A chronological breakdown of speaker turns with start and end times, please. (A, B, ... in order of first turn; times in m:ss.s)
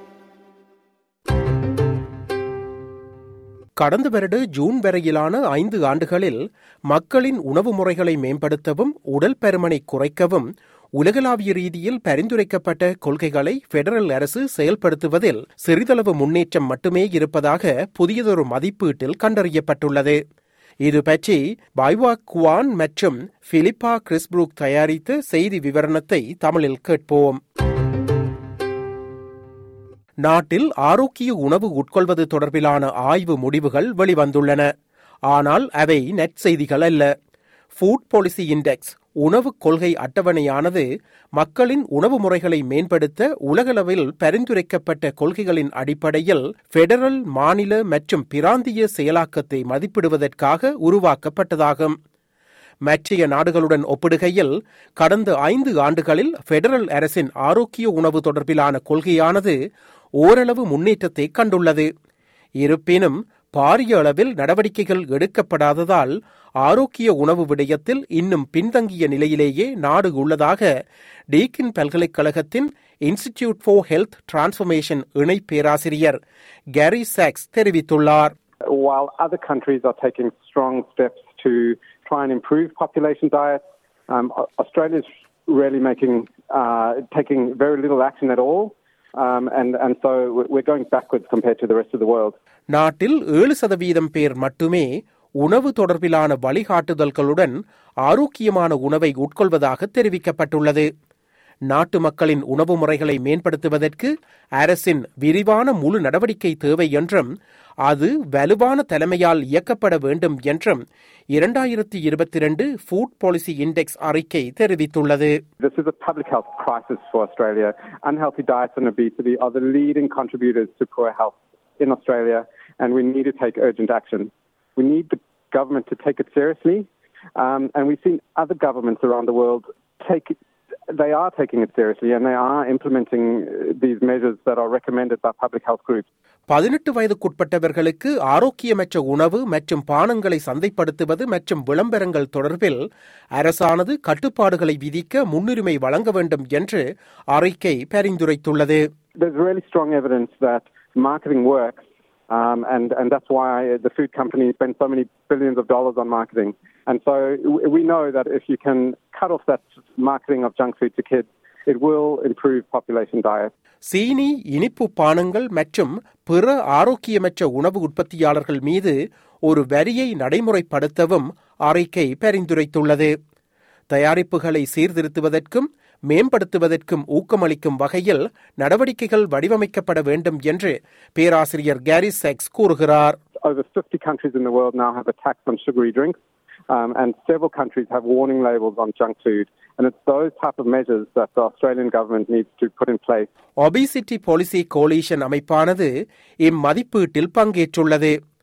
0:03.8-0:20.2 A
0:20.8-0:27.4 A
0:30.2-0:34.7 A
0:35.3-0:37.1 A
0:37.8-0:40.8 A
0:41.4-0:51.9 A
0:52.8-0:59.5 A
1:00.2-1:01.9 A
1:02.6-1:10.7 A
1:11.3-1:16.2 A
1:16.7-1:18.3 A
1:18.6-1:32.3 B
1:32.7-1:34.9 A
1:35.4-1:40.9 A
1:41.7-1:47.3 A
1:47.8-1:55.4 A
1:55.6-2:10.3 B
2:10.9-2:16.0 B
2:16.5-2:22.8 A
2:23.4-2:28.8 A
2:29.2-2:43.5 B
2:43.8-2:53.1 A
2:53.9-3:03.2 A
3:03.4-3:06.2 B
3:06.7-3:13.3 B
3:13.6-3:15.9 A
3:16.4-3:18.1 A